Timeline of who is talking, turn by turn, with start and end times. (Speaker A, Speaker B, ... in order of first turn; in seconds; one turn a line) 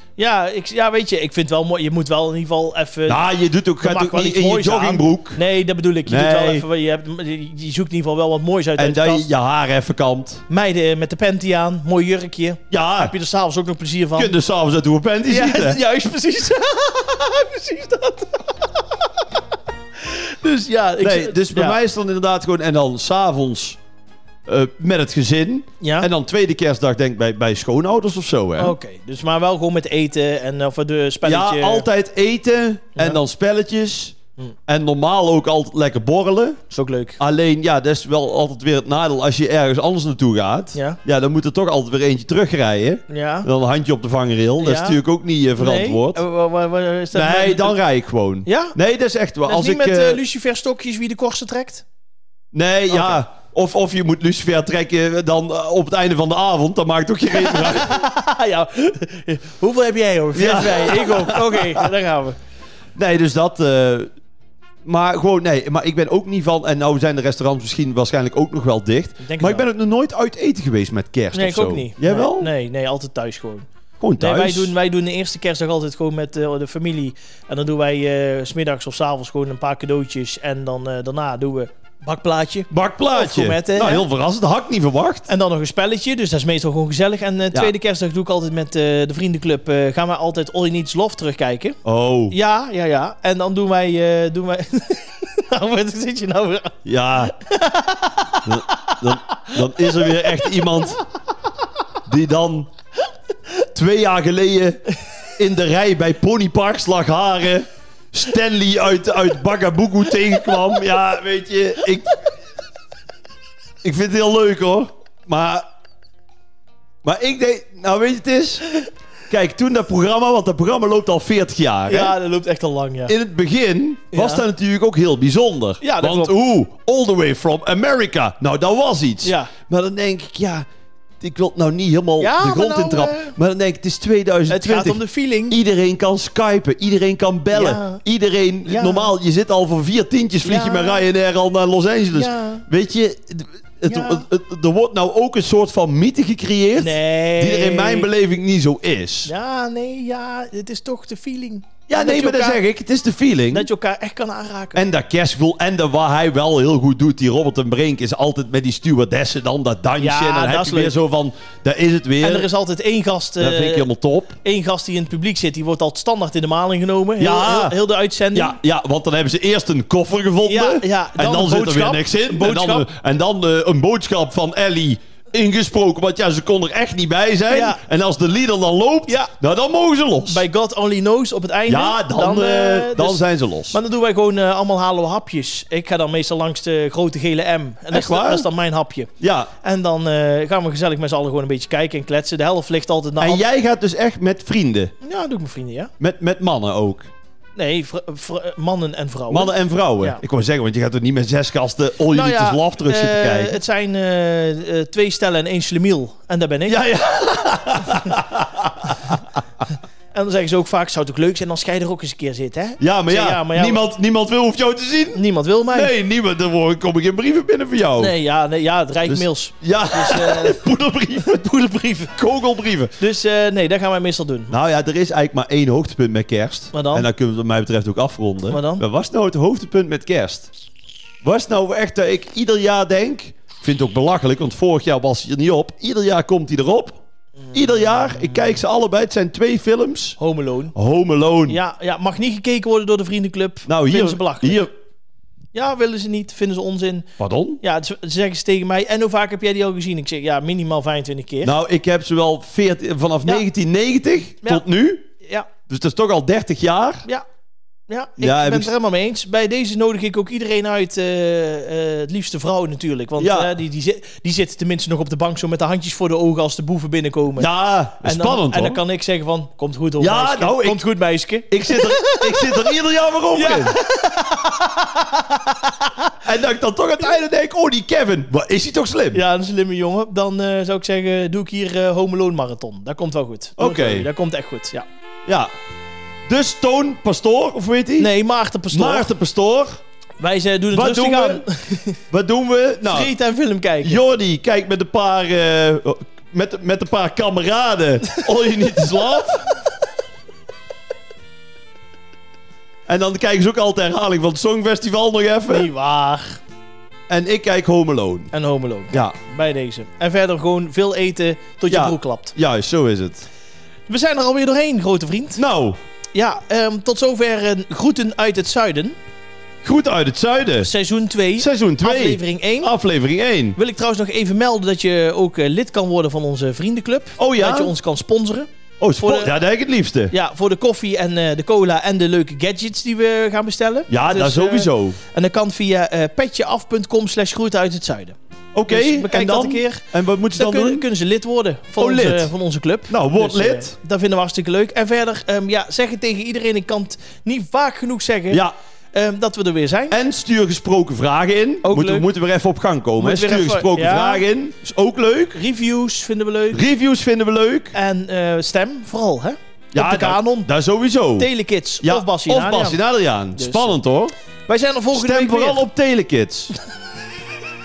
Speaker A: 0.2-3.2
Speaker B: 3.1-5.4
Speaker A: 3.8-9.3
Speaker B: 6.1-6.7
Speaker B: 8.8-10.4
Speaker A: 10.5-14.3
Speaker B: 12.7-13.2
Speaker B: 14.2-15.8
Speaker A: 15.3-18.8
Speaker A: 20.0-21.8
Speaker B: 21.0-23.8
Speaker B: 24.5-28.8
Speaker A: 25.8-26.1
Speaker A: 28.6-31.9
Speaker B: 31.2-36.6
Speaker A: 36.7-37.2
Speaker B: 37.2-46.2
Speaker A: 40.7-41.0
Speaker A: 43.1-43.5
Speaker A: 44.6-45.0
Speaker A: 45.6-47.8
Speaker B: 47.1-50.2
Speaker A: 48.5-48.8
Speaker A: 49.5-51.8
Speaker B: 52.5-58.1
Speaker A: 52.9-53.2
Speaker A: 57.3-62.4
Speaker B: 60.3-61.9
Speaker B: 63.0-64.1
Speaker B: 64.8-72.5
Speaker A: 69.2-69.7
Speaker A: 71.3-73.7
Speaker B: 74.0-74.7
Speaker A: 74.2-84.1
Speaker B: 82.7-85.3
Speaker A: 85.3-91.8
Speaker B: 91.8-92.3
Speaker A: 92.3-100.8
Speaker B: 96.8-97.3
Speaker B: 98.5-101.0
Speaker B: 102.1-102.7
Speaker B: 103.7-104.8
Speaker B: 105.4-112.2
Speaker B: 113.8-115.6
Speaker B: 117.0-118.6
Speaker B: 119.3-122.2
Speaker A: 121.9-123.1
Speaker B: 123.1-130.7
Speaker A: 124.1-124.4
Speaker A: 125.8-126.3
Speaker A: 129.2-129.5
Speaker B: 131.2-149.3
Speaker A: 132.2-133.3
Speaker A: 134.5-135.6
Speaker A: 137.5-138.0
Speaker A: 138.7-139.1
Speaker A: 140.4-141.0
Speaker A: 142.1-142.7
Speaker A: 143.9-144.3
Speaker A: 146.8-148.1
Speaker A: 149.3-152.6
Speaker B: 151.9-153.7
Speaker A: 153.5-154.8
Speaker B: 154.7-162.5
Speaker A: 160.0-161.0
Speaker A: 162.2-163.9
Speaker B: 163.4-164.4
Speaker A: 164.4-168.6
Speaker B: 167.2-167.8
Speaker B: 168.3-180.4
Speaker A: 170.4-172.9
Speaker A: 177.5-177.8
Speaker A: 179.1-179.3
Speaker A: 180.2-189.1
Speaker B: 181.7-183.8
Speaker B: 187.9-188.5
Speaker B: 189.2-189.5
Speaker A: 189.6-193.4
Speaker B: 193.2-194.9
Speaker A: 195.0-195.9
Speaker B: 196.0-197.1
Speaker A: 197.6-200.2
Speaker B: 199.3-203.6
Speaker A: 202.1-206.8
Speaker B: 206.7-209.2
Speaker A: 210.1-213.8
Speaker B: 212.8-218.1
Speaker A: 215.2-215.9
Speaker A: 218.0-220.7
Speaker B: 219.1-222.9
Speaker A: 221.2-222.1
Speaker A: 223.0-224.5
Speaker B: 224.5-230.5
Speaker A: 226.7-227.1
Speaker A: 228.5-228.8
Speaker B: 231.2-237.0
Speaker A: 237.5-238.6
Speaker B: 237.5-240.2
Speaker A: 240.2-240.8
Speaker B: 240.8-241.6
Speaker A: 241.5-244.7
Speaker B: 243.7-244.7
Speaker A: 245.5-247.1
Speaker B: 247.2-247.6
Speaker A: 247.6-251.6
Speaker B: 251.4-255.1
Speaker A: 255.2-255.5
Speaker B: 255.7-257.0
Speaker A: 257.9-267.5
Speaker B: 258.2-258.7
Speaker B: 263.2-263.5
Speaker B: 267.4-268.8
Speaker A: 268.0-272.6
Speaker B: 270.0-270.8
Speaker B: 271.5-273.8
Speaker A: 273.3-276.2
Speaker B: 276.2-279.2
Speaker A: 279.1-284.9
Speaker B: 283.6-284.1
Speaker B: 286.3-288.1
Speaker A: 288.0-289.1
Speaker B: 288.7-289.8
Speaker A: 290.2-292.0
Speaker B: 290.7-291.4
Speaker B: 292.1-293.1
Speaker A: 292.9-294.0
Speaker B: 293.8-299.5
Speaker B: 302.9-305.7
Speaker A: 305.5-306.4
Speaker B: 307.1-308.3
Speaker A: 308.3-312.3
Speaker B: 311.7-313.3
Speaker A: 313.9-315.4
Speaker B: 315.4-315.8
Speaker A: 316.1-319.0
Speaker B: 319.6-320.7
Speaker A: 320.6-322.7
Speaker B: 321.4-323.6
Speaker A: 323.6-328.5
Speaker B: 327.2-327.7
Speaker B: 328.8-330.1
Speaker A: 329.0-329.3
Speaker A: 330.1-338.2
Speaker B: 333.9-335.0
Speaker B: 338.5-340.8
Speaker A: 338.7-339.8
Speaker A: 340.3-350.0
Speaker B: 341.8-342.3
Speaker B: 342.9-343.8
Speaker B: 349.9-355.4
Speaker A: 351.6-352.1
Speaker A: 353.0-354.2
Speaker A: 355.3-356.7
Speaker B: 356.5-357.8
Speaker A: 357.7-360.5
Speaker B: 359.7-361.3
Speaker A: 361.2-362.8
Speaker B: 361.8-364.1
Speaker A: 363.4-363.8
Speaker A: 364.5-365.6
Speaker B: 364.9-366.5